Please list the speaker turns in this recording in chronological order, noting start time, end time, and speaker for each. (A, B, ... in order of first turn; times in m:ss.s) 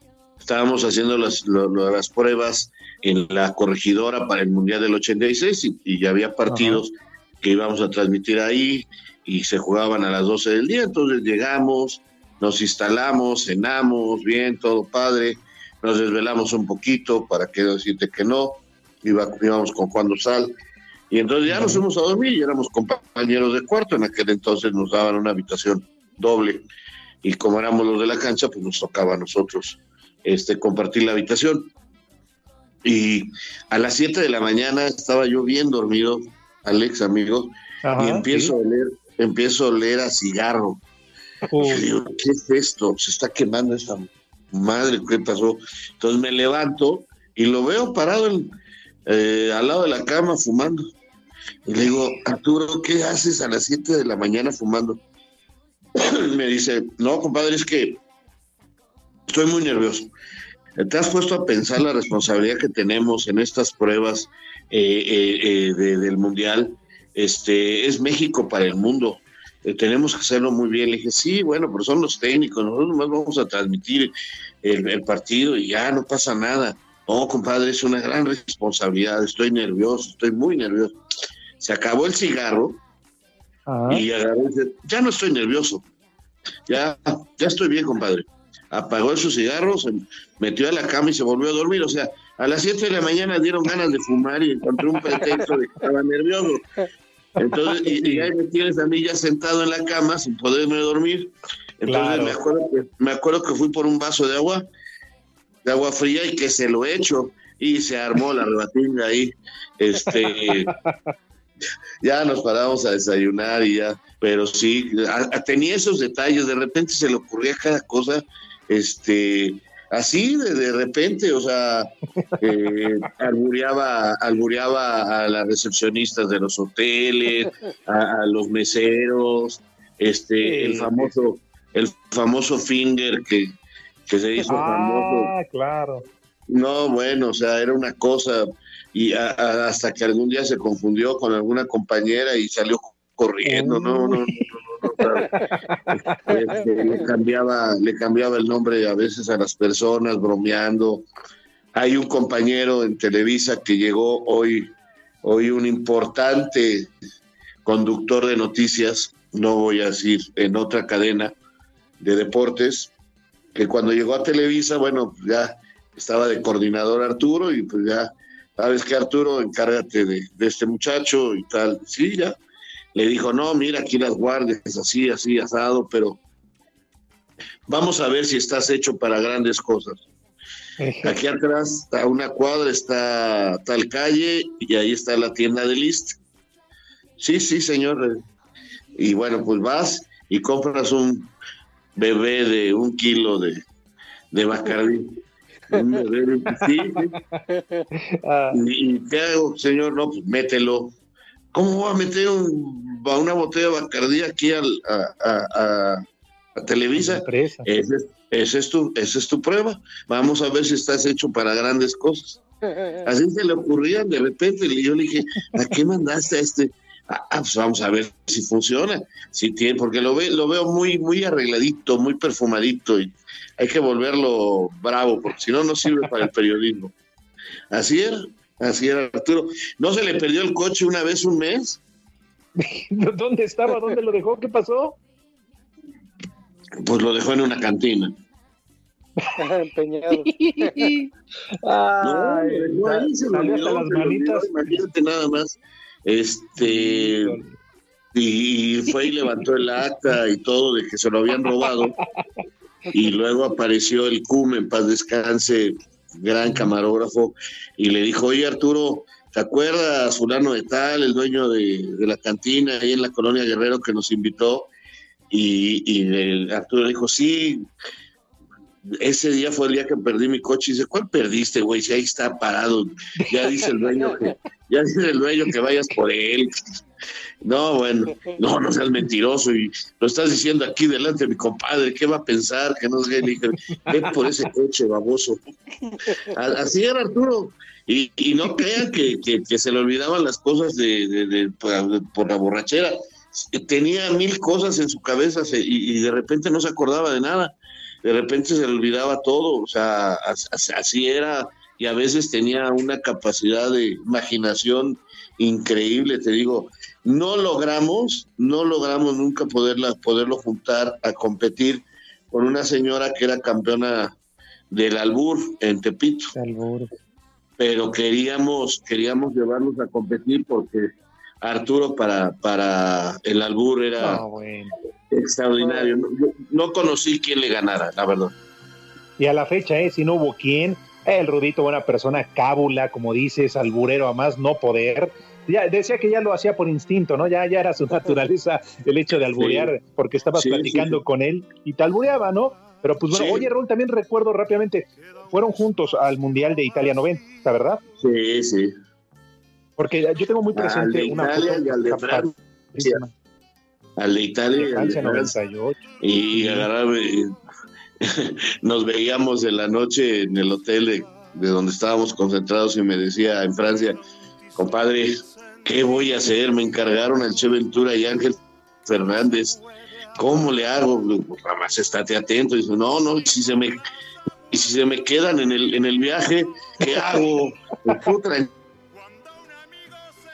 0:00.4-0:20.5 A
0:06.5-0:06.8 B
0:21.1-0:26.6 A
0:21.4-0:21.8 B
0:27.2-0:31.7 A
0:32.8-0:40.8 A
0:37.8-0:38.5 B
0:41.5-0:41.9 B
0:41.6-0:48.5 A
0:49.1-0:50.8 A
0:51.6-0:55.0 A
0:56.0-0:58.0 A
0:59.3-1:00.1 A
1:00.8-1:14.1 A
1:14.6-1:20.9 A
1:21.6-1:22.8 A
1:23.7-1:24.0 B
1:23.9-1:25.8 A
1:26.7-1:36.6 A
1:37.4-1:44.6 A
1:37.5-1:38.3 B
1:41.8-1:42.4 B
1:45.6-1:50.7 A
1:50.1-1:51.0 B
1:52.0-2:13.5 A
2:10.4-2:11.1 B
2:14.1-2:15.3 A
2:14.4-2:16.0 B
2:16.5-2:25.3 A
2:23.4-2:24.4 B
2:25.4-2:26.0 B
2:26.3-2:31.0 A
2:26.3-2:27.0 C
2:31.7-2:36.9 A
2:37.6-2:41.3 A
2:42.0-2:42.9 A
2:43.5-2:52.4 A
2:52.9-2:56.2 A
2:57.7-3:00.0 A
3:00.8-3:01.2 B
3:01.0-3:06.2 A
3:07.2-3:08.2 A
3:09.0-3:11.3 A
3:12.0-3:13.6 A
3:14.3-3:15.2 A
3:15.7-3:17.1 A
3:17.5-3:17.8 C
3:17.9-3:18.6 B
3:18.5-3:20.9 A
3:21.5-3:26.0 A
3:26.6-3:32.4 A
3:26.9-3:27.7 B
3:32.7-3:33.0 C
3:33.0-3:46.9 A
3:47.7-3:51.8 A
3:52.6-3:55.0 B
3:56.8-3:58.1 A
3:59.4-4:00.9 C
4:00.1-4:04.8 B
4:02.0-4:07.4 A
4:06.6-4:07.6 B
4:08.1-4:11.9 A
4:11.4-4:11.9 B
4:12.9-4:24.7 A
4:16.4-4:16.7 B
4:25.3-4:27.6 A
4:28.8-4:36.5 A
4:33.2-4:33.5 B
4:37.4-4:45.4 A
4:46.3-5:14.1 A
5:14.7-5:16.3 A
5:16.3-5:16.9 B
5:17.6-5:20.9 A
5:21.4-5:24.2 A
5:24.0-5:24.7 B
5:25.1-5:28.3 A
5:29.2-5:47.8 B
5:39.4-5:39.7 A
5:40.4-5:41.0 A
5:43.1-5:43.5 A
5:48.0-5:48.7 A
5:49.8-5:53.1 B
5:50.5-5:53.0 A
5:54.0-5:55.3 A
5:54.6-5:55.8 B
5:56.0-5:57.3 A
5:56.3-5:56.7 B
5:58.0-6:04.0 A
6:04.5-6:09.6 A
6:10.2-6:13.7 A
6:14.5-6:18.5 A
6:16.8-6:17.3 B